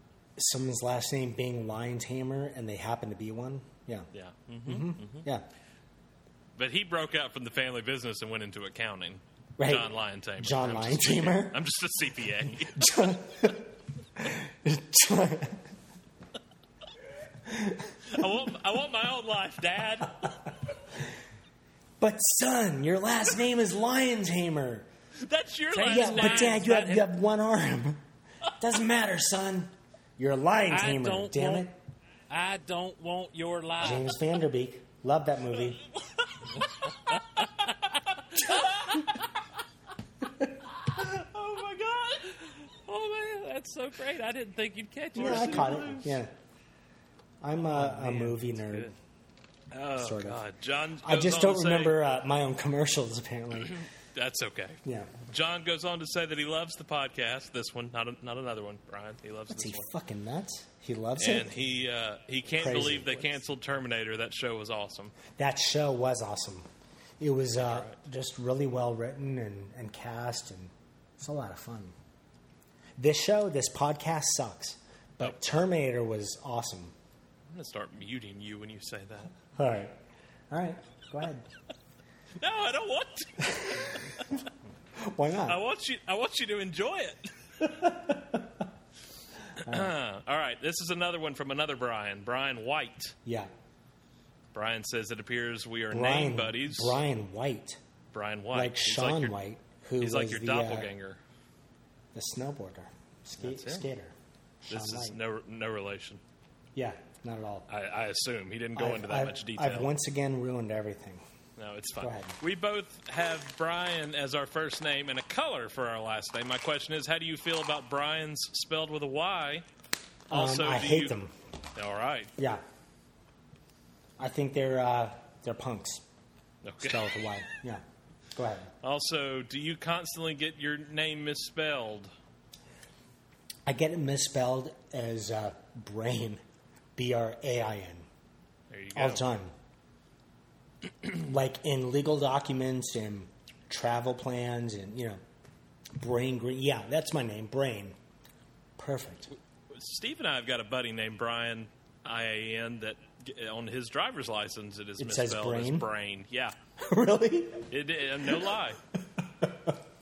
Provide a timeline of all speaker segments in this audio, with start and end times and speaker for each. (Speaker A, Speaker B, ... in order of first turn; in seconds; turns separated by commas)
Speaker A: 0.4-4.1, Speaker B: 4.5-5.3, Speaker A: 4.7-5.5, Speaker C: 6.6-13.2, Speaker A: 9.6-11.6, Speaker A: 12.8-15.7, Speaker A: 17.5-17.9, Speaker C: 18.1-20.3, Speaker A: 22.0-24.9, Speaker C: 25.2-26.6, Speaker B: 25.7-27.1, Speaker A: 25.9-28.0, Speaker A: 28.6-31.8, Speaker B: 30.7-31.7, Speaker B: 32.3-34.1, Speaker A: 33.8-35.8, Speaker C: 38.4-39.1, Speaker C: 41.0-42.5, Speaker B: 42.6-45.8, Speaker A: 45.1-46.3, Speaker C: 45.2-46.2, Speaker A: 47.4-48.9, Speaker B: 47.7-48.9, Speaker C: 49.7-52.0, Speaker A: 50.0-50.4, Speaker A: 51.0-53.8, Speaker C: 53.6-59.9, Speaker A: 54.9-55.2, Speaker A: 59.5-61.6, Speaker C: 61.2-65.2, Speaker A: 62.5-63.4, Speaker A: 65.3-66.7, Speaker A: 67.2-72.0, Speaker C: 67.6-68.0, Speaker A: 73.0-77.0, Speaker C: 77.5-79.4, Speaker A: 79.5-80.0, Speaker A: 80.5-81.5, Speaker C: 82.4-84.4, Speaker A: 83.5-83.8, Speaker A: 85.0-85.6, Speaker C: 85.5-87.3, Speaker A: 87.6-88.6, Speaker C: 89.6-93.2, Speaker A: 89.7-89.9, Speaker A: 93.3-93.5, Speaker C: 94.5-97.0, Speaker A: 95.9-97.8, Speaker C: 98.1-99.3, Speaker A: 98.5-100.9, Speaker C: 100.0-101.2, Speaker A: 102.1-105.2, Speaker C: 103.4-103.9, Speaker C: 104.7-106.2, Speaker A: 106.8-107.7, Speaker C: 107.7-109.9, Speaker A: 108.8-111.2, Speaker C: 111.6-119.7, Speaker A: 112.0-112.4, Speaker C: 120.3-121.2, Speaker A: 120.3-121.3, Speaker C: 121.8-122.3, Speaker A: 122.4-122.6, Speaker A: 124.2-126.0, Speaker C: 126.6-127.0, Speaker A: 126.8-127.8, Speaker A: 128.3-128.7, Speaker C: 128.8-132.1, Speaker A: 133.7-136.4, Speaker A: 137.0-138.1, Speaker C: 138.7-139.2, Speaker A: 138.9-139.5, Speaker A: 141.1-145.2, Speaker A: 146.0-148.0, Speaker A: 148.8-149.3, Speaker C: 149.7-156.6, Speaker A: 155.0-155.9, Speaker A: 156.8-157.7, Speaker C: 157.7-158.8, Speaker A: 158.2-158.5, Speaker A: 159.4-159.8